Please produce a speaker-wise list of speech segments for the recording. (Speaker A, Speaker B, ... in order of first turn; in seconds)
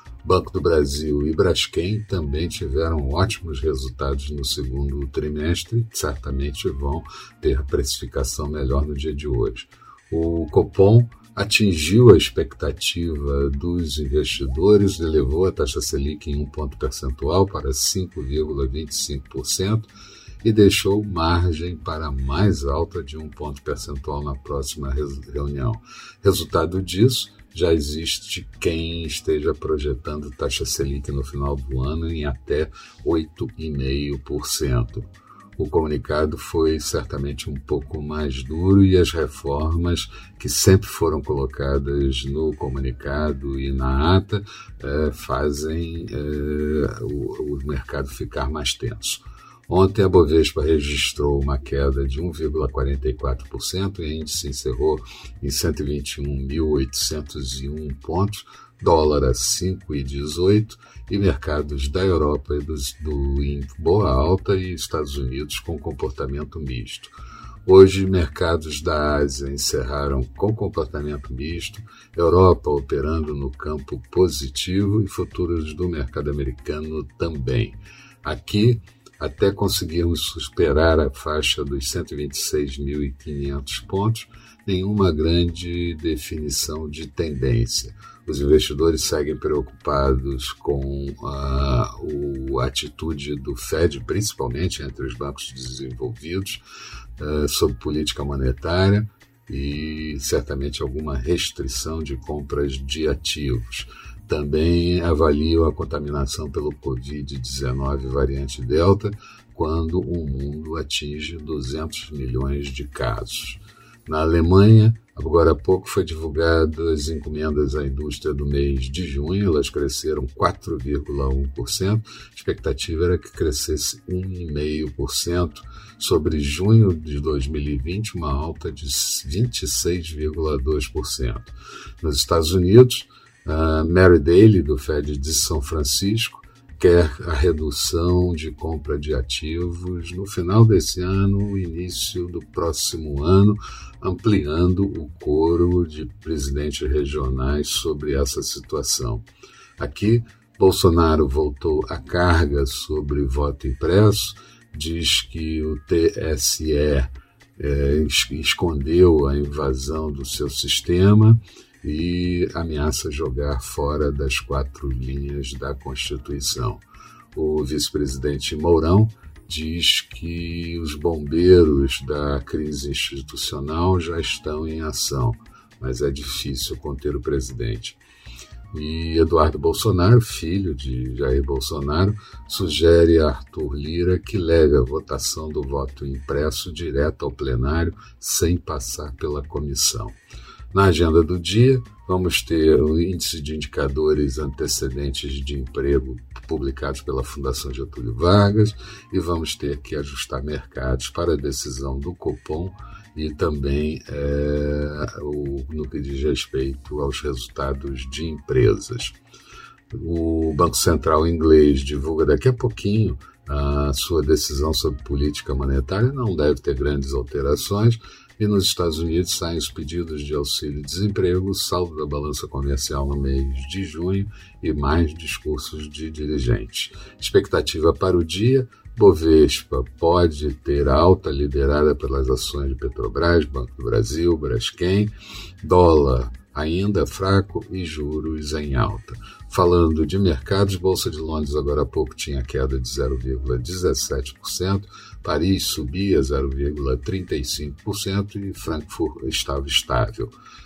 Speaker A: 0.2-19.9, 20.4-35.0, 35.6-67.1, 67.6-96.6, 97.2-149.2, 149.8-178.0, 178.7-190.2, 190.7-209.2, 209.9-250.3